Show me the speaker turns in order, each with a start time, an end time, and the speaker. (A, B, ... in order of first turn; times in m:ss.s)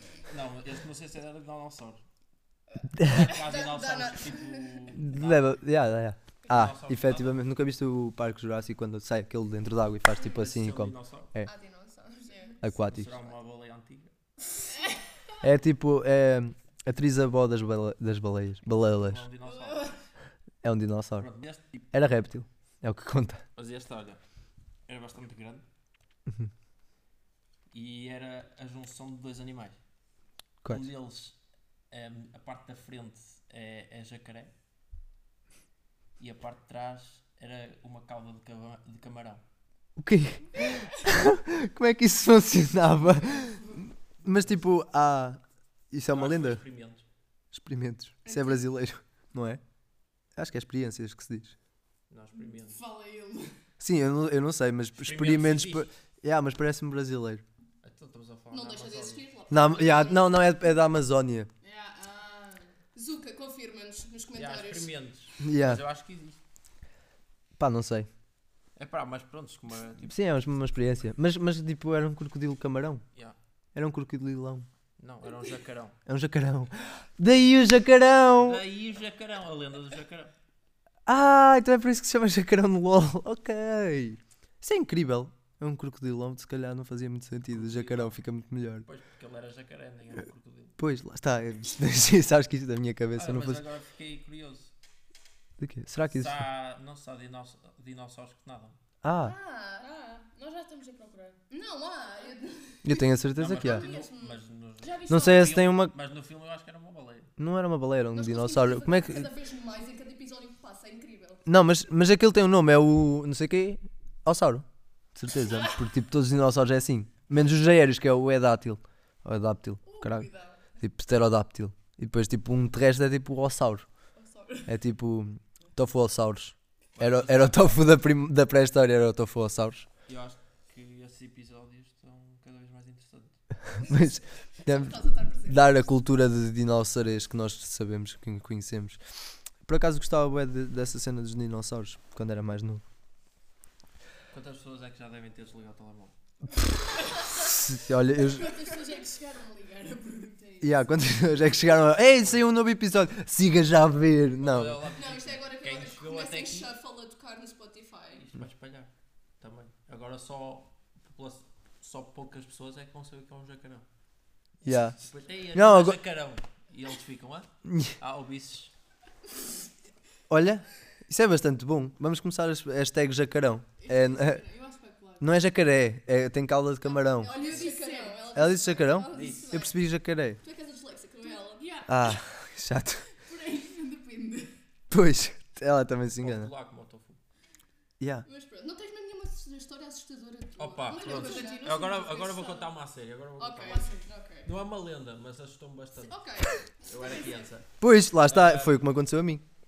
0:00.2-0:02.0 A
0:03.0-0:03.3 B
0:03.0-0:05.6 A
0:03.2-0:05.0 C
0:05.0-0:11.5 B
0:06.5-0:07.4 A
0:10.2-0:11.3 A
0:11.4-0:12.6 C
0:12.3-0:12.6 D
0:12.6-0:13.2 B
0:12.7-0:14.1 A
0:15.4-0:19.2 B
0:18.8-0:20.0 A
0:20.6-0:21.3 B
0:21.2-0:21.9 A
0:21.9-0:23.4 B
0:23.6-0:24.2 A
0:24.9-0:25.6 A
0:27.7-0:29.8 A
0:30.6-0:31.4 A
0:31.9-0:34.5 A
0:36.2-0:39.4 A
0:40.0-0:46.6 B
0:40.6-0:41.1 D
0:43.4-0:43.8 D
0:44.3-0:44.5 A
0:46.1-0:47.0 A
0:47.5-0:49.6 B
0:48.2-0:48.6 D
0:50.4-0:51.5 B
0:52.1-0:52.8 A
0:52.3-0:53.5 D
0:53.8-0:57.4 B
0:55.0-0:55.9 A
0:57.8-0:59.3 A
0:58.5-1:00.4 C
0:59.5-1:01.5 B
1:01.6-1:02.8 D
1:02.9-1:04.9 C
1:04.3-1:06.4 A
1:05.4-1:05.8 B
1:07.6-1:08.1 B
1:08.8-1:10.1 A
1:10.0-1:13.0 B
1:13.7-1:14.7 B
1:15.0-1:16.0 A
1:16.1-1:18.6 B
1:18.4-1:20.3 A
1:21.0-1:28.9 B
1:27.5-1:28.2 A
1:28.8-1:30.8 A
1:30.8-1:33.6 B
1:33.1-1:34.7 A
1:35.6-1:36.4 B
1:36.1-1:38.8 A
1:39.0-1:39.3 B
1:39.1-1:39.9 C
1:39.8-1:41.4 D
1:41.5-1:43.0 C
1:42.8-1:43.8 B
1:43.4-1:47.3 A
1:43.6-1:44.4 C
1:44.8-1:45.6 D
1:45.1-1:45.9 B
1:47.4-1:49.3 B
1:48.1-1:51.4 C
1:51.4-2:03.8 B
1:59.8-2:00.6 D
2:04.2-2:04.7 D
2:04.7-2:09.9 B
2:07.0-2:07.9 A
2:10.1-2:13.4 A
2:13.8-2:19.0 B
2:14.7-2:15.8 C
2:19.6-2:22.8 B
2:24.3-2:26.1 A
2:27.3-2:28.5 B
2:28.1-2:31.5 D
2:30.6-2:34.8 B
2:32.0-2:32.4 A
2:34.4-2:36.7 A
2:34.9-2:38.2 C
2:38.1-2:43.8 A
2:44.6-2:45.0 B
2:45.0-2:47.5 A
2:45.5-2:46.0 B
2:47.7-2:47.9 B
2:48.0-2:48.7 A
2:50.3-2:54.4 B
2:53.8-2:55.3 D
2:55.2-2:57.4 B
2:56.8-2:59.8 C
2:57.2-2:58.6 D
2:58.3-3:00.4 B
2:59.1-2:59.6 A
3:00.4-3:01.7 C
3:01.2-3:02.2 D
3:01.8-3:03.1 B
3:03.1-3:04.5 D
3:04.9-3:06.5 B
3:06.2-3:07.2 A
3:08.0-3:08.2 B
3:08.2-3:11.8 C
3:10.6-3:13.9 A
3:11.1-3:12.7 D
3:13.4-3:14.5 C
3:13.6-3:14.1 D
3:14.4-3:18.8 A
3:16.0-3:17.4 C
3:17.8-3:19.4 B